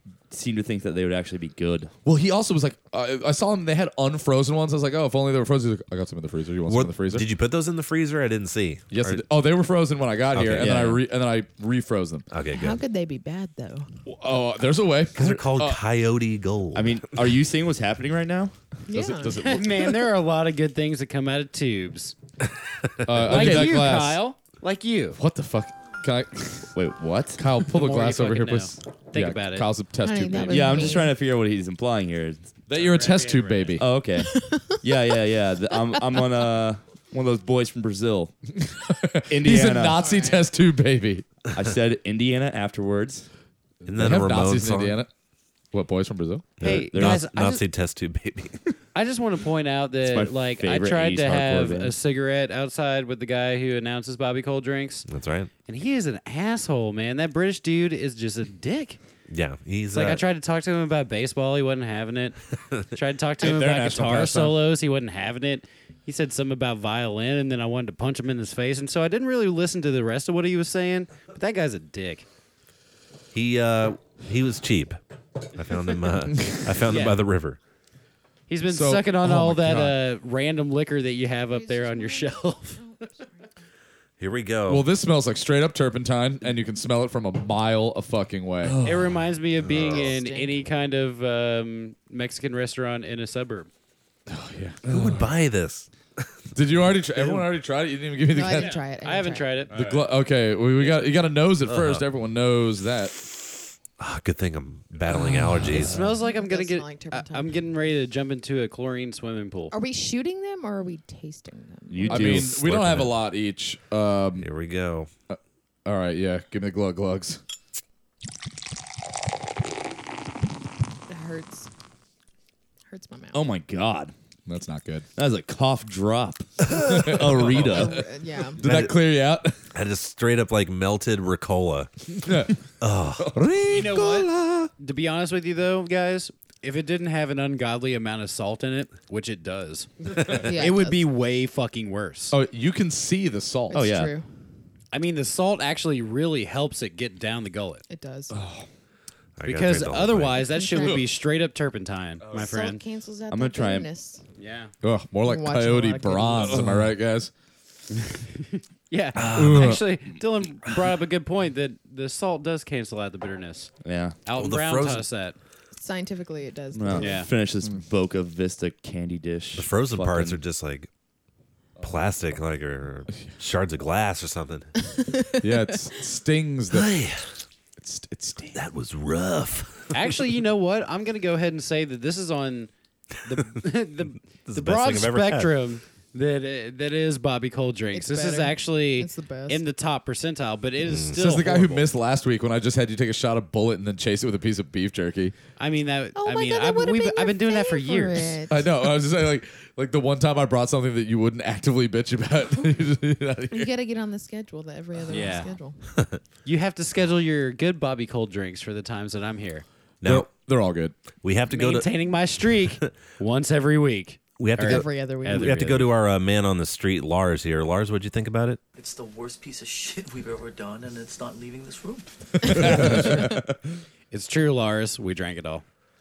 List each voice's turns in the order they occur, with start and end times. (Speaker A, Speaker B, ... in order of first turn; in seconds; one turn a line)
Speaker A: 0.3-1.9
Speaker B: 2.0-7.2
Speaker C: 6.7-9.2
Speaker B: 8.9-12.2
Speaker C: 10.3-10.8
Speaker A: 10.6-11.0
Speaker C: 12.3-12.8
Speaker D: 12.5-13.9
Speaker B: 14.1-15.8
Speaker C: 15.1-17.2
Speaker A: 16.7-18.5
Speaker D: 18.9-19.4
Speaker B: 18.9-19.9
Speaker E: 19.4-22.1
Speaker B: 23.1-24.2
Speaker E: 23.2-25.2
Speaker B: 25.1-26.7
Speaker A: 26.7-27.4
Speaker B: 27.4-30.9
Speaker E: 27.6-29.7
Speaker D: 30.0-31.1
Speaker A: 30.5-32.6
Speaker B: 32.7-33.9
Speaker E: 32.7-33.8
Speaker A: 33.8-38.4
Speaker D: 34.3-34.7
Speaker B: 38.6-41.3
Speaker A: 39.3-40.0
Speaker D: 40.0-40.4
Speaker A: 41.5-43.3
Speaker B: 43.8-45.1
Speaker C: 43.9-45.0
Speaker B: 45.7-46.6
Speaker E: 46.6-47.6
Speaker C: 46.6-48.6
Speaker A: 46.7-47.2
Speaker E: 48.9-55.1
Speaker A: 50.0-51.9
Speaker C: 55.1-55.5
Speaker E: 55.6-59.0
Speaker C: 59.3-60.2
Speaker E: 59.9-62.4
Speaker E: 62.9-72.2
Speaker A: 63.4-64.5
Speaker C: 73.3-75.0
Speaker C: 75.5-77.6
Speaker E: 76.9-77.2
Speaker E: 78.5-82.8
Speaker B: 78.7-80.0
Speaker D: 81.5-83.5
Speaker C: 84.2-84.8
Speaker B: 84.7-88.8
Speaker A: 88.6-89.1
Speaker E: 88.8-93.7
Speaker C: 89.6-90.1
Speaker D: 89.9-90.6
Speaker B: 94.3-94.8
Speaker C: 94.9-96.2
Speaker B: 96.5-98.8
Speaker D: 98.3-99.7
Speaker E: 98.5-99.8
Speaker B: 99.7-103.1
Speaker C: 101.6-102.0
Speaker C: 104.0-106.0
Speaker A: 105.7-106.1
Speaker E: 105.8-109.7
Speaker D: 106.0-107.6
Speaker D: 109.7-112.5
Speaker A: 111.9-112.6
Speaker B: 112.1-114.5
Speaker C: 112.3-113.2
Speaker C: 114.4-115.1
Speaker B: 115.3-117.4
Speaker D: 121.1-121.7
Speaker D: 122.9-123.4
Speaker A: 123.3-124.1
Speaker B: 124.5-125.1
Speaker A: 125.2-128.1
Speaker B: 126.9-127.2
Speaker D: 127.5-128.6
Speaker B: 128.6-129.6
Speaker C: 128.6-129.0
Speaker C: 129.7-131.9
Speaker B: 132.2-132.5
Speaker C: 132.8-133.4
Speaker B: 133.3-134.7
Speaker E: 133.7-142.3
Speaker D: 140.4-141.1
Speaker B: 142.3-143.9
Speaker D: 143.7-144.3
Speaker A: 143.7-144.1
Speaker E: 144.9-147.8
Speaker D: 147.9-148.4
Speaker A: 148.3-148.7
Speaker C: 149.4-150.6
Speaker E: 149.4-152.8
Speaker D: 150.5-151.0
Speaker D: 152.3-154.2
Speaker A: 153.3-153.9
Speaker E: 154.4-154.7
Speaker B: 154.8-157.3
Speaker D: 155.2-156.6
Speaker A: 156.4-156.9
Speaker E: 158.0-163.7
Speaker C: 159.1-159.8
Speaker B: 159.3-159.8
Speaker A: 163.8-164.2
Speaker E: 164.2-165.3
Speaker C: 164.3-165.1
Speaker D: 165.8-167.2
Speaker A: 166.7-170.4
Speaker E: 167.0-167.3
Speaker C: 169.6-170.9
Speaker C: 171.8-174.8
Speaker D: 175.0-175.6
Speaker B: 175.4-177.0
Speaker C: 176.7-177.4
Speaker B: 177.8-178.6
Speaker C: 178.5-180.1
Speaker E: 179.9-182.7
Speaker E: 183.2-191.9
Speaker C: 184.5-185.6
Speaker D: 187.9-189.6
Speaker C: 190.8-191.2
Speaker B: 191.1-195.3
Speaker E: 195.6-198.4
Speaker D: 196.1-198.7
Speaker B: 198.5-203.7
Speaker D: 203.5-205.8
Speaker E: 205.1-205.5
Speaker E: 206.4-209.6
Speaker C: 210.0-210.3
Speaker B: 210.0-210.9
Speaker C: 211.2-211.9
Speaker E: 211.5-215.9
Speaker C: 214.4-218.6
Speaker D: 214.6-215.6
Speaker F: 218.8-222.5
Speaker B: 222.5-223.2
Speaker A: 222.5-223.5
Speaker E: 224.1-225.6